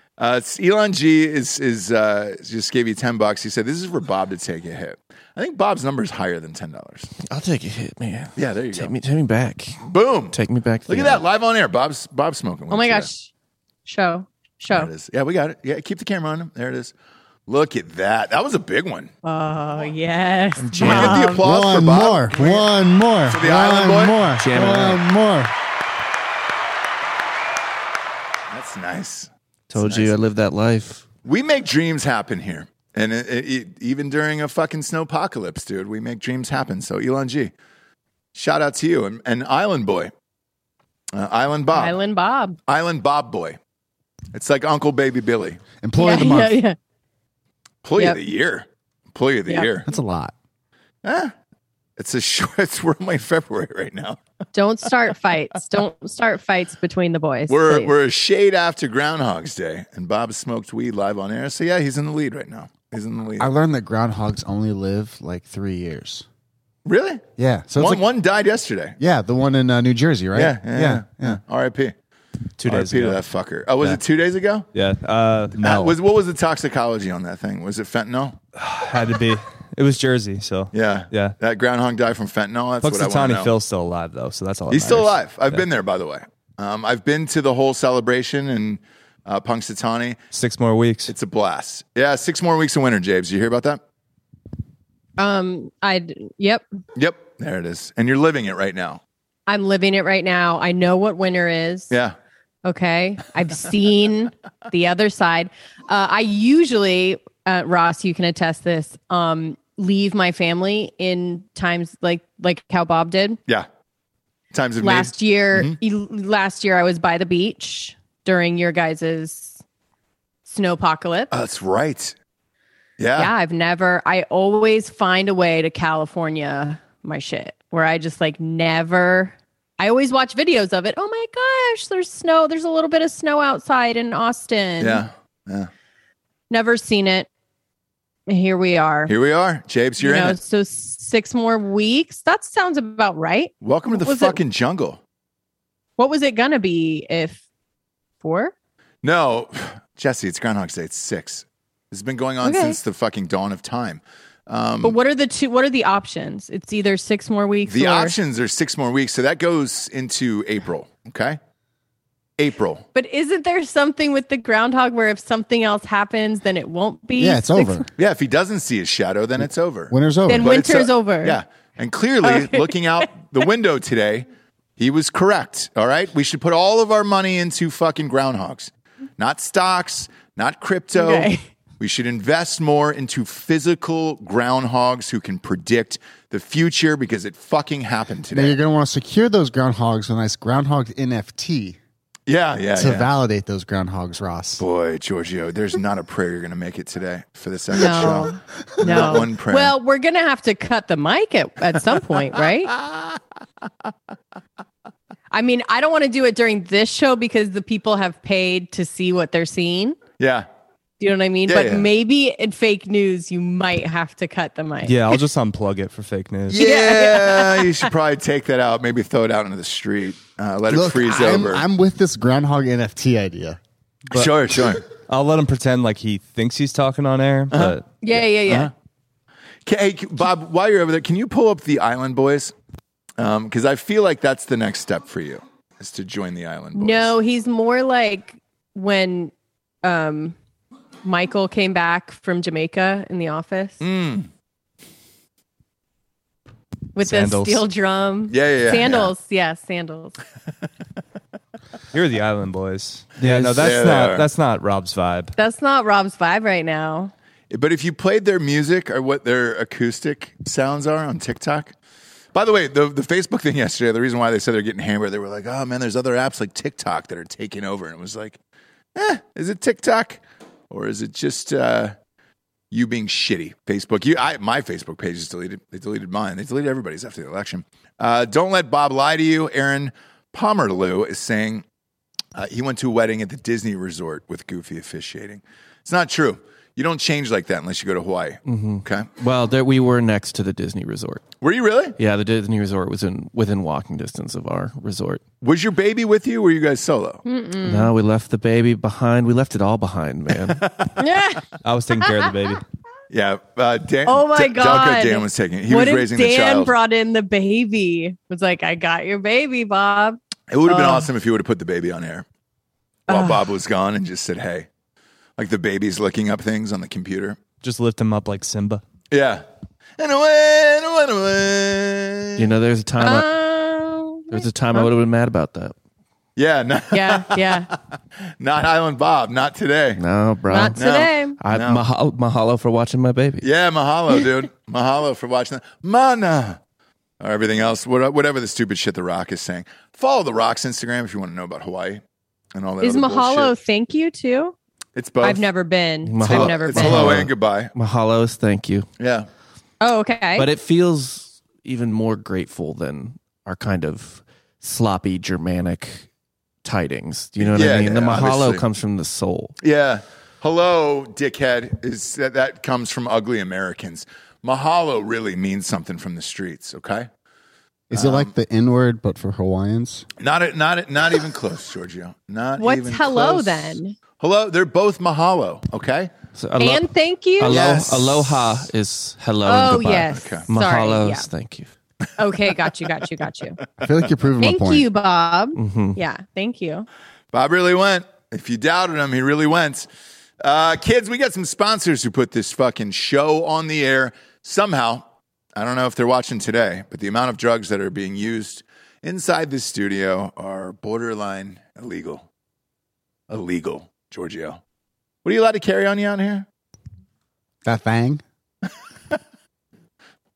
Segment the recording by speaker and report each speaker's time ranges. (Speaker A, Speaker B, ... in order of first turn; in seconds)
Speaker A: 0.2-7.1, 8.3-8.9, 9.8-10.4, 10.9-13.1, 14.7-16.9, 17.5-19.1, 20.8-22.7, 23.2-24.2, 28.5-30.2, 31.2-37.5, 38.3-40.1, 41.1-42.0, 42.7-43.6, 44.3-45.6, 47.8-49.9, 51.0-51.3, 52.0-54.2, 57.5-63.5, 66.8-67.2, 67.8-69.0, 70.3-71.9, 72.6-74.7, 75.6-78.4, 80.7-83.5, 84.7-90.2, 91.1-93.8, 97.0-99.0, 101.9-102.1, 114.5-115.8, 121.3-122.2, 123.0-123.3, 134.8-135.7, 139.1-140.4, 143.6-145.0, 149.0-154.9, 157.6-161.4, 162.4-162.8, 168.0-188.6, 192.3-193.1, 194.6-199.7, 202.7-203.2, 210.2-210.5, 211.5-211.9, 216.5-221.6, 224.1-224.8, 227.5-227.8, 229.7-232.5, 233.2-237.1, 243.8-244.3, 248.3-249.1, 253.2-254.2, 257.5-261.7, 262.3-268.4, 268.9-271.9, 272.7-281.6, 282.3-289.1, 291.4-291.9, 295.4-297.2, 300.5-300.9, 303.1-306.7, 310.5-312.2, 313.1-314.7, 315.4-317.4, 319.1-319.4, 320.0-322.4, 326.4-327.7, 328.3-330.0, 330.8-331.8, 333.4-336.6, 337.2-342.0, 342.5-343.5, 344.9-345.4, 346.2-347.7, 349.0-349.3, 357.4-358.6, 359.6-367.1, 367.9-368.3, 370.2-376.1, 377.5-378.7, 380.1-380.5, 387.3-389.9, 390.4-395.0, 395.6-402.2, 403.3-404.6, 405.2-406.5
Speaker B: 7.2-11.2, 20.6-21.4, 24.4-25.0, 29.7-31.0, 288.4-291.3, 292.0-295.2, 297.6-300.6, 322.4-323.3, 324.3-325.7, 330.0-330.8, 331.4-333.4, 346.1-348.9, 350.4-356.1, 356.6-359.6, 376.4-381.7, 385.5-386.0
Speaker C: 12.7-13.3, 13.8-14.9, 19.2-21.4, 41.7-42.6, 46.0-46.8, 54.5-57.9, 95.2-96.6, 99.5-101.9, 102.6-113.4, 114.8-119.6, 120.5-121.3, 123.2-135.0, 136.5-137.3, 138.3-139.1, 140.0-144.4, 146.0-147.4, 148.2-148.5, 152.4-152.8, 154.8-158.1, 162.9-167.9, 170.3-171.4, 172.2-173.0, 180.9-181.4, 197.7-202.7, 205.3-210.0, 211.0-215.2, 216.6-217.7, 228.0-228.7, 236.7-240.3, 241.0-243.8, 246.9-250.2, 255.3-257.1, 297.2-297.9, 301.0-302.3, 304.1-311.1, 313.1-313.5, 323.0-324.9, 326.9-327.7, 330.5-331.4, 342.8-344.5, 345.2-347.2, 349.8-350.5, 372.6-374.0, 376.6-377.6, 379.4-381.3, 382.2-383.6, 384.4-386.9
Speaker D: 21.4-25.5, 45.8-46.6, 49.9-50.3, 63.4-66.2, 67.4-68.0, 69.0-71.4, 167.2-167.9, 169.4-170.5, 188.3-191.8, 192.7-194.6, 220.7-223.6, 367.9-370.1, 383.8-384.9, 407.6-408.2
Speaker E: 72.6-73.2, 74.7-76.0, 78.6-81.3, 82.8-85.6, 90.3-91.1, 214.8-216.6, 225.0-227.9, 247.0-247.6, 251.9-255.3, 301.6-302.6, 317.6-318.8